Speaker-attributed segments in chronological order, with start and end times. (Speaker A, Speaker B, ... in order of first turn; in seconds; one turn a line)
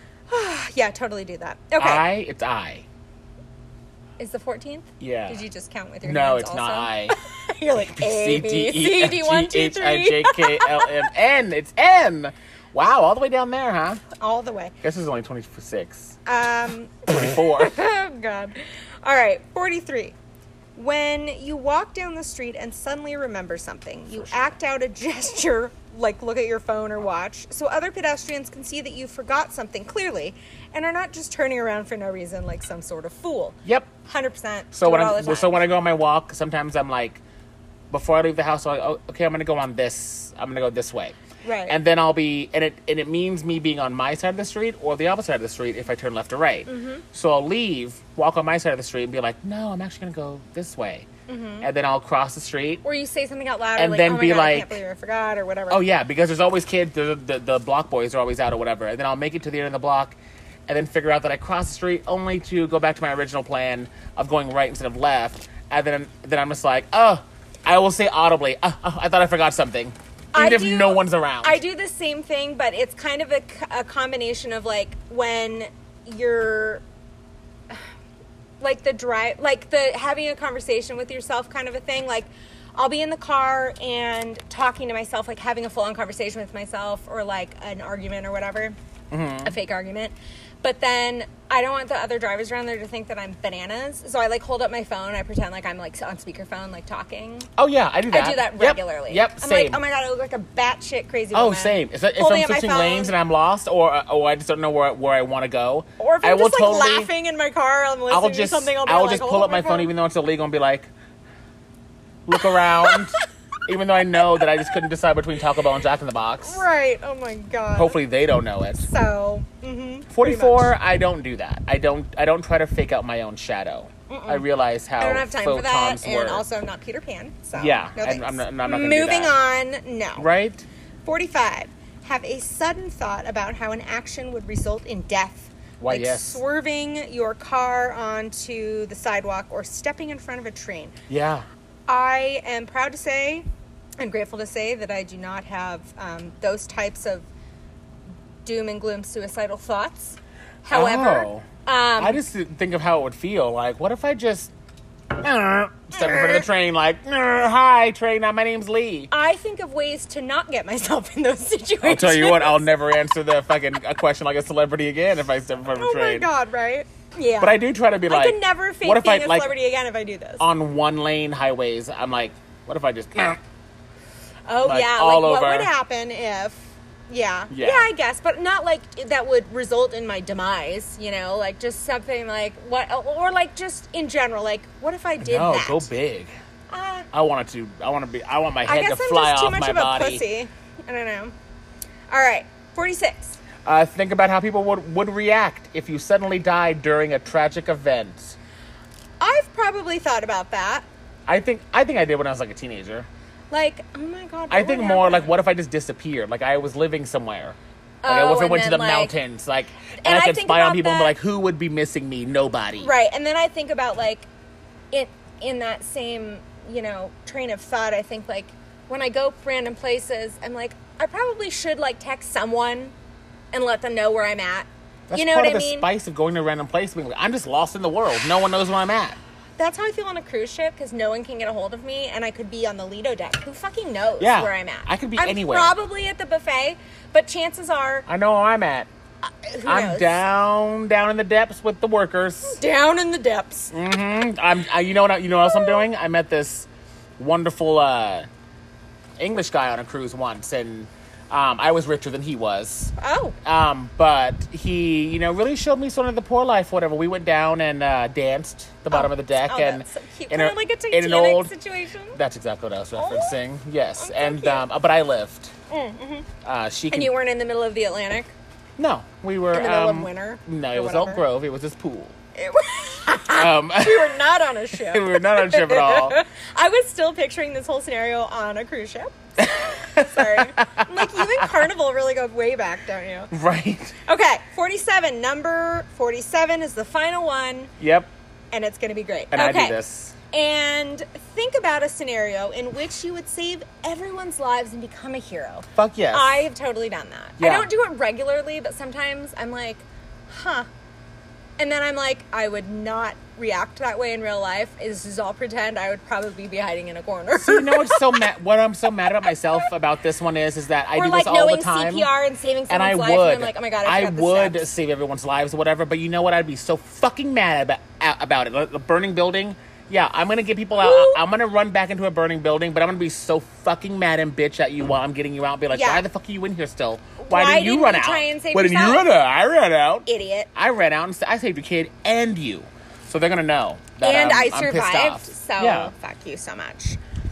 Speaker A: 0.3-2.0
Speaker B: 1.8-2.9
Speaker A: 4.2-11.1
Speaker B: 5.0-5.4
Speaker B: 6.0-7.2
Speaker B: 7.7-14.0
Speaker A: 14.2-14.7
Speaker B: 14.8-16.2
Speaker A: 16.2-20.1
Speaker B: 17.1-17.7
Speaker A: 20.8-35.6
Speaker B: 24.1-24.6
Speaker B: 33.6-33.9
Speaker B: 34.7-37.2
Speaker B: 37.9-41.1
Speaker A: 41.4-41.8
Speaker B: 41.7-51.1
Speaker A: 46.6-47.0
Speaker A: 51.3-51.7
Speaker B: 51.6-52.8
Speaker A: 52.8-55.8
Speaker B: 53.8-54.8
Speaker B: 55.7-60.2
Speaker B: 60.7-71.6
Speaker A: 70.3-76.8
Speaker A: 78.6-88.8
Speaker B: 89.1-89.5
Speaker A: 89.4-97.5
Speaker B: 97.6-99.8
Speaker A: 98.1-103.2
Speaker B: 101.3-107.1
Speaker A: 106.0-109.9
Speaker B: 108.1-110.9
Speaker B: 112.2-116.6
Speaker A: 112.5-113.0
Speaker A: 116.4-118.0
Speaker B: 117.8-118.9
Speaker A: 118.8-120.7
Speaker B: 120.1-126.5
Speaker A: 124.1-124.5
Speaker A: 125.0-130.3
Speaker B: 127.5-129.3
Speaker B: 130.2-130.7
Speaker A: 131.0-140.9
Speaker B: 135.8-136.4
Speaker B: 141.1-141.4
Speaker A: 141.9-143.4
Speaker A: 144.0-147.2
Speaker A: 148.4-152.2
Speaker B: 150.7-151.4
Speaker B: 152.0-154.5
Speaker B: 155.2-159.1
Speaker A: 155.9-156.4
Speaker A: 159.1-162.7
Speaker B: 161.8-166.3
Speaker A: 165.7-170.4
Speaker B: 167.4-169.5
Speaker B: 170.4-173.4
Speaker A: 174.5-185.9
Speaker B: 174.6-175.7
Speaker B: 177.5-177.9
Speaker B: 185.2-186.3
Speaker A: 186.7-187.1
Speaker B: 187.1-190.2
Speaker A: 188.6-191.3
Speaker A: 192.1-193.4
Speaker B: 193.6-198.4
Speaker A: 199.2-200.8
Speaker B: 201.3-203.1
Speaker A: 203.5-205.3
Speaker B: 204.5-212.9
Speaker A: 208.0-209.1
Speaker A: 210.0-211.1
Speaker A: 212.8-214.3
Speaker A: 214.9-222.9
Speaker A: 223.5-225.9
Speaker B: 225.1-229.2
Speaker A: 229.6-238.1
Speaker B: 234.2-235.7
Speaker B: 238.1-238.9
Speaker A: 239.4-240.2
Speaker B: 239.6-242.6
Speaker A: 242.4-243.7
Speaker B: 243.7-248.3
Speaker A: 245.4-245.8
Speaker B: 249.2-252.9
Speaker A: 253.0-253.3
Speaker B: 253.4-261.5
Speaker A: 258.9-262.2
Speaker B: 262.1-265.5
Speaker A: 263.0-263.4
Speaker A: 264.0-264.6
Speaker A: 265.7-266.3
Speaker B: 266.4-267.1
Speaker A: 266.9-268.3
Speaker B: 268.8-272.1
Speaker A: 269.5-271.2
Speaker A: 272.3-283.3
Speaker B: 273.3-276.2
Speaker B: 279.4-281.6
Speaker B: 283.3-283.9
Speaker A: 284.1-287.7
Speaker B: 287.8-288.1
Speaker A: 288.5-289.8
Speaker B: 289.3-290.1
Speaker A: 290.3-300.7
Speaker B: 295.8-296.3
Speaker B: 297.4-297.7
Speaker A: 301.6-308.2
Speaker B: 307.3-312.1
Speaker A: 310.9-314.7
Speaker B: 312.7-335.9
Speaker A: 320.8-321.2
Speaker A: 325.7-326.0
Speaker A: 327.2-329.1
Speaker A: 330.1-330.5
Speaker A: 334.0-337.0